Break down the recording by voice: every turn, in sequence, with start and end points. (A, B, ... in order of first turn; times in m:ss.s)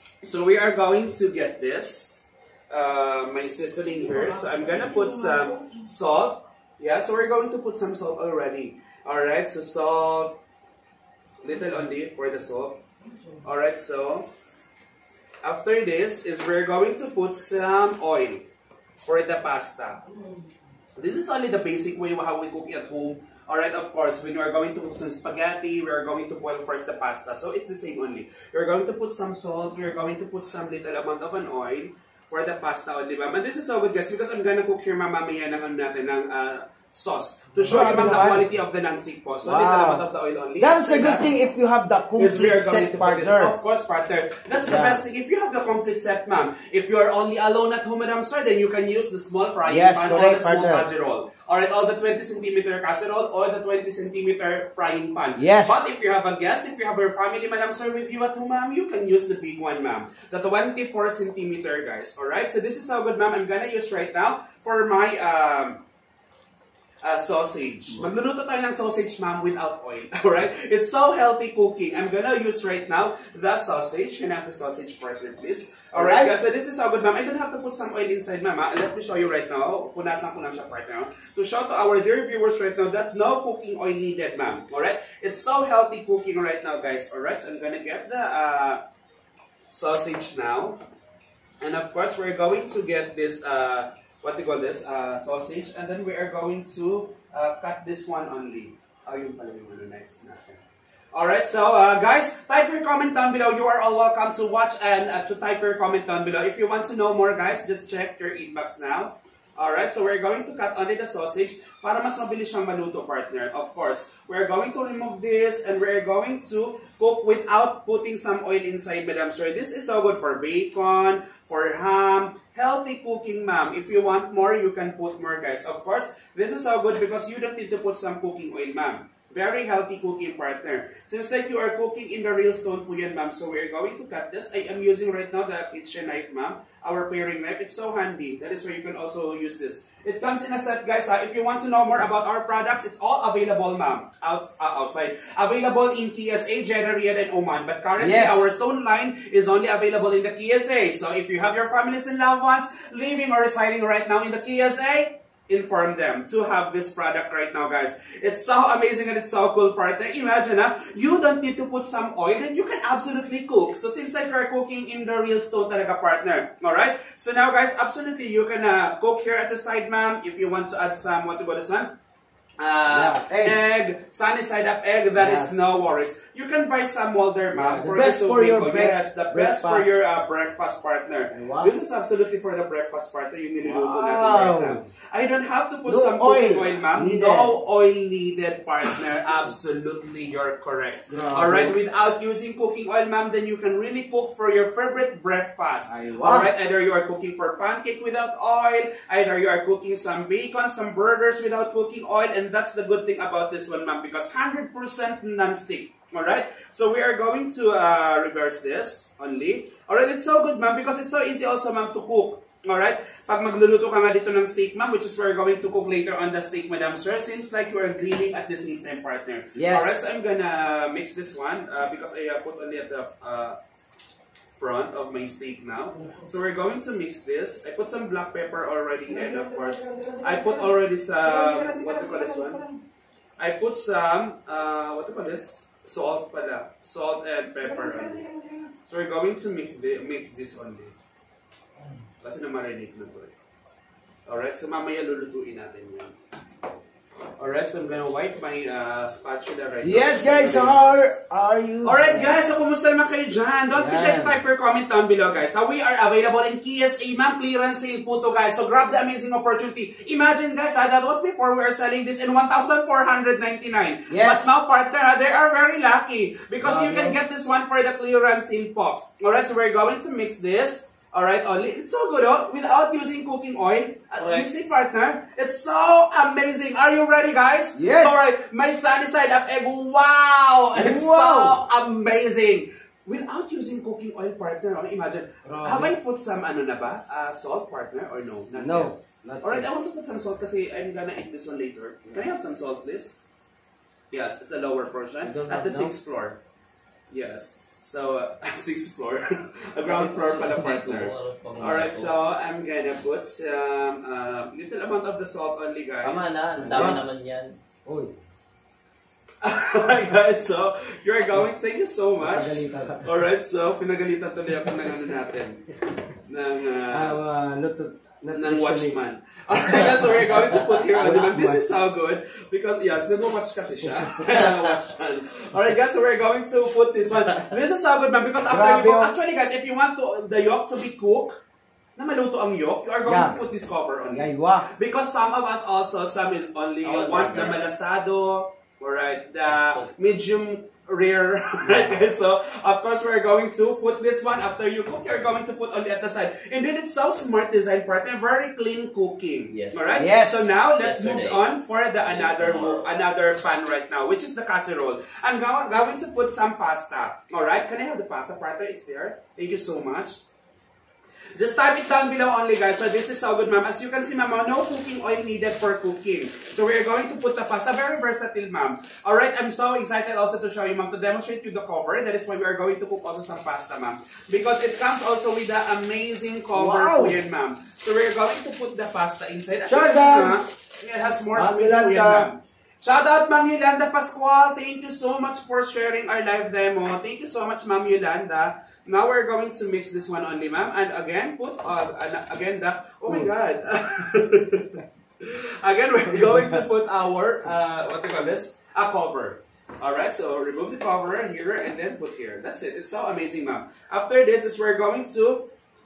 0:00.2-0:10.4 A
0:11.4-0:12.8 A
0:13.4-0:14.3 A
0:15.4-0:18.5 A
0:19.1-0:20.0 A
0:21.0-0:41.3 A
0:37.6-0:38.4 B
0:39.4-0:40.0 B
0:40.6-0:43.5 B
0:42.2-1:05.8 A
0:44.6-0:45.0 B
0:49.7-0:50.9 B
0:55.4-0:55.8 B
1:07.0-1:28.8 A
1:15.9-1:16.4 B
1:29.7-1:30.8 A
1:31.6-1:40.6 A
1:41.1-2:51.9 A
2:28.0-2:28.5 B
2:52.6-3:43.6 A
2:52.9-2:53.6 B
2:55.2-2:55.6 B
2:57.5-3:00.0 B
3:01.3-3:01.7 B
3:03.6-3:04.8 B
3:05.9-3:07.5 B
3:11.1-3:11.7 B
3:15.9-3:16.5 B
3:39.6-3:40.0 B
3:44.6-3:52.6 A
3:49.1-3:52.8 B
3:53.4-3:58.2 A
3:57.6-3:58.7 B
3:58.8-4:00.9 A
4:02.2-4:03.3 A
4:04.3-4:06.2 A
4:07.4-4:11.1 A
4:09.8-4:12.4 B
4:11.8-4:53.2 A
4:13.8-4:14.4 B
4:24.1-4:24.5 B
4:26.6-4:27.2 B
4:34.2-4:34.5 C
4:37.8-4:38.2 B
4:40.8-4:41.6 B
4:45.4-4:45.9 B
4:48.5-4:49.7 B
4:54.1-4:56.4 A
4:55.2-4:55.9 B
4:57.1-5:07.0 A
4:59.8-5:02.2 C
5:06.0-5:07.6 C
5:06.6-5:07.2 B
5:07.9-5:08.1 B
5:09.4-5:15.6 A
5:12.2-5:13.1 B
5:16.2-5:17.2 A
5:16.9-5:19.0 B
5:18.3-5:31.4 A
5:20.9-5:21.6 B
5:28.5-5:29.1 B
5:32.0-6:00.2 A
5:33.1-5:33.4 B
5:34.1-5:34.7 B
5:36.8-5:37.6 C
5:41.6-5:42.0 B
5:49.5-5:49.8 C
5:50.0-5:50.5 B
5:50.8-5:51.5 C
5:52.0-5:52.9 C
6:01.4-6:45.5 A
6:16.6-6:17.2 B
6:19.7-6:20.4 B
6:21.3-6:22.3 B
6:36.3-6:36.6 B